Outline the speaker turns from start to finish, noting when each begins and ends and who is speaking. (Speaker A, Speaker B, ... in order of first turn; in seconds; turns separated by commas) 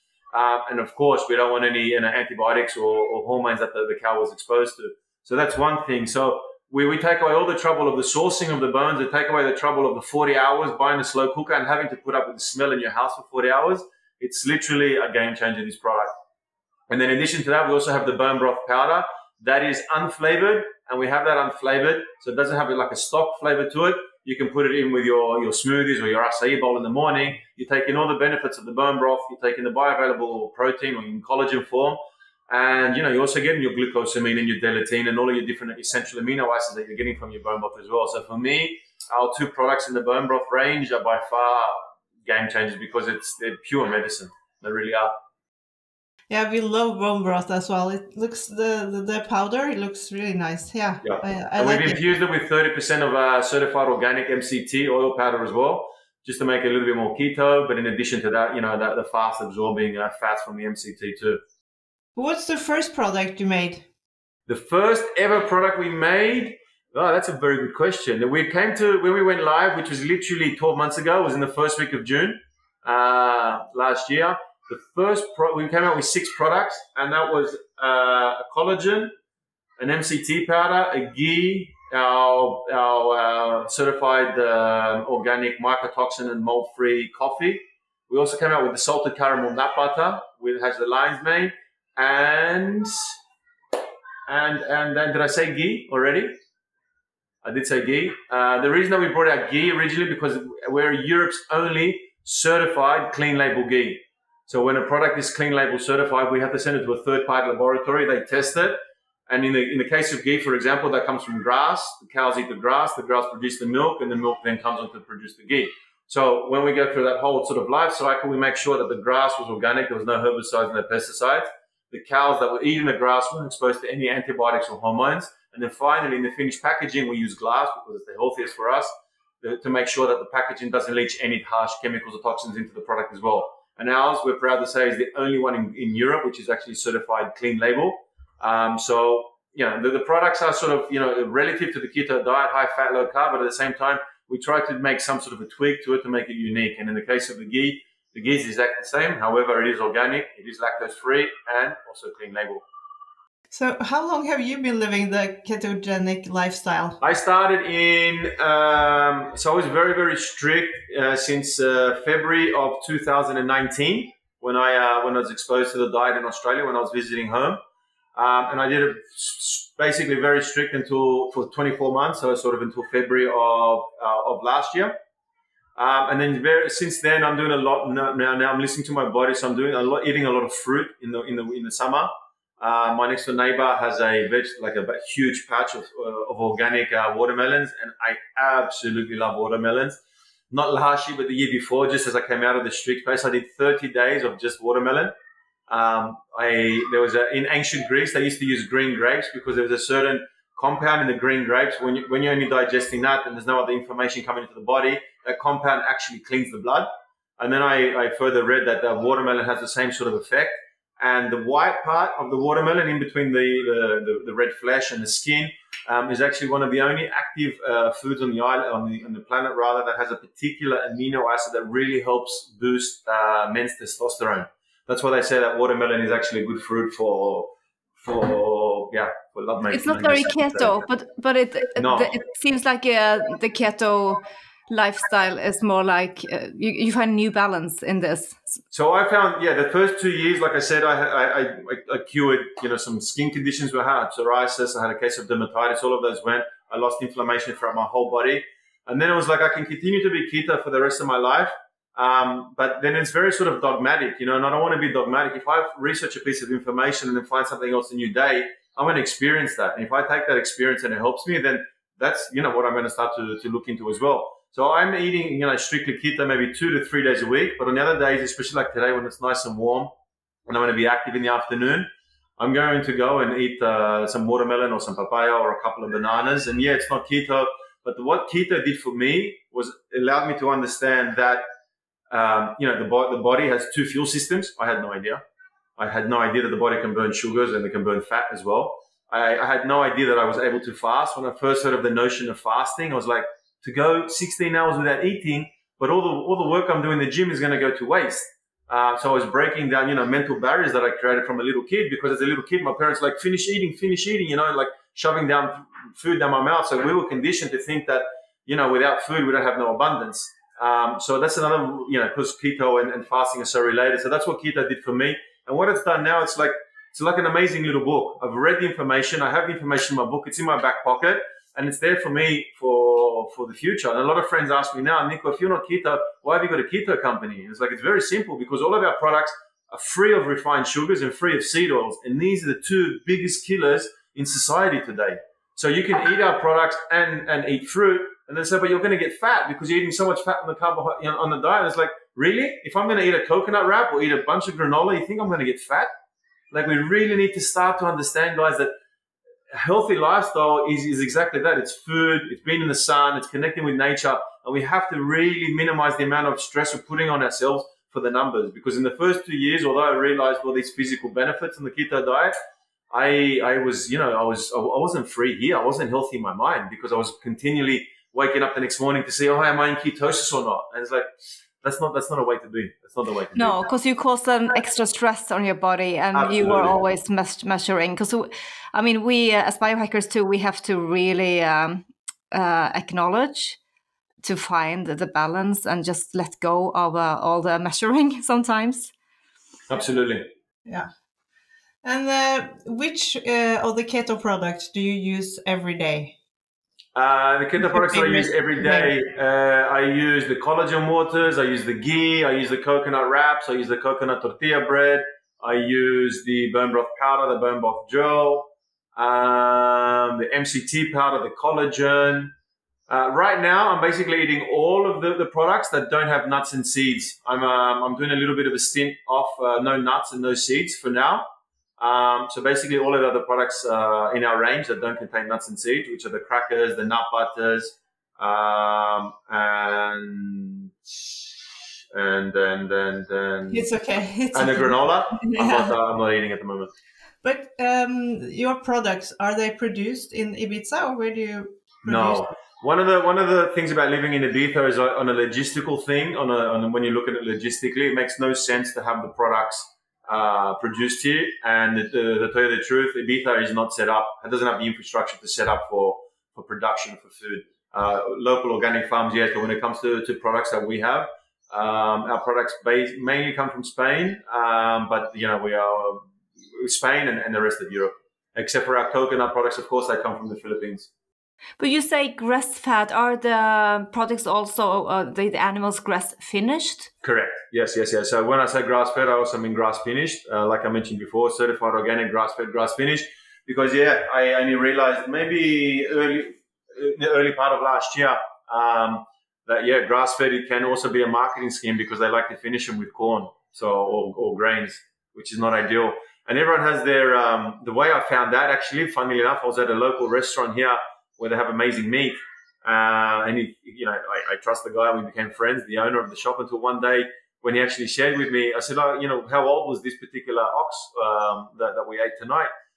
Speaker A: 0.3-16.1, Speaker A: 16.9-32.0, Speaker A: 32.5-45.1, Speaker B: 46.3-52.0, Speaker A: 51.0-61.4, Speaker B: 62.1-63.9, Speaker A: 64.5-79.1, Speaker A: 79.8-92.9, Speaker A: 94.3-96.4, Speaker A: 97.4-108.8, Speaker A: 109.3-152.6, Speaker B: 153.5-157.0, Speaker A: 157.0-167.6, Speaker A: 168.1-174.9, Speaker A: 175.8-190.0, Speaker A: 190.5-195.1, Speaker A: 195.7-230.8, Speaker C: 229.7-238.6, Speaker A: 231.8-232.1, Speaker A: 238.7-269.9, Speaker A: 270.5-281.4, Speaker A: 282.1-285.2, Speaker A: 285.8-345.9, Speaker A: 346.5-348.7, Speaker A: 349.5-362.3, Speaker A: 362.9-371.1, Speaker A: 371.6-373.6, Speaker C: 373.3-383.6, Speaker A: 376.1-376.8, Speaker C: 384.2-388.9, Speaker A: 389.7-390.3, Speaker B: 391.8-396.1, Speaker A: 396.9-412.3, Speaker B: 397.6-398.9, Speaker A: 412.9-421.2, Speaker A: 421.8-431.2, Speaker A: 431.9-433.7, Speaker B: 433.5-435.7, Speaker A: 434.3-436.7, Speaker B: 437.2-442.3, Speaker A: 441.8-470.9, Speaker C: 471.6-476.9, Speaker A: 477.0-512.5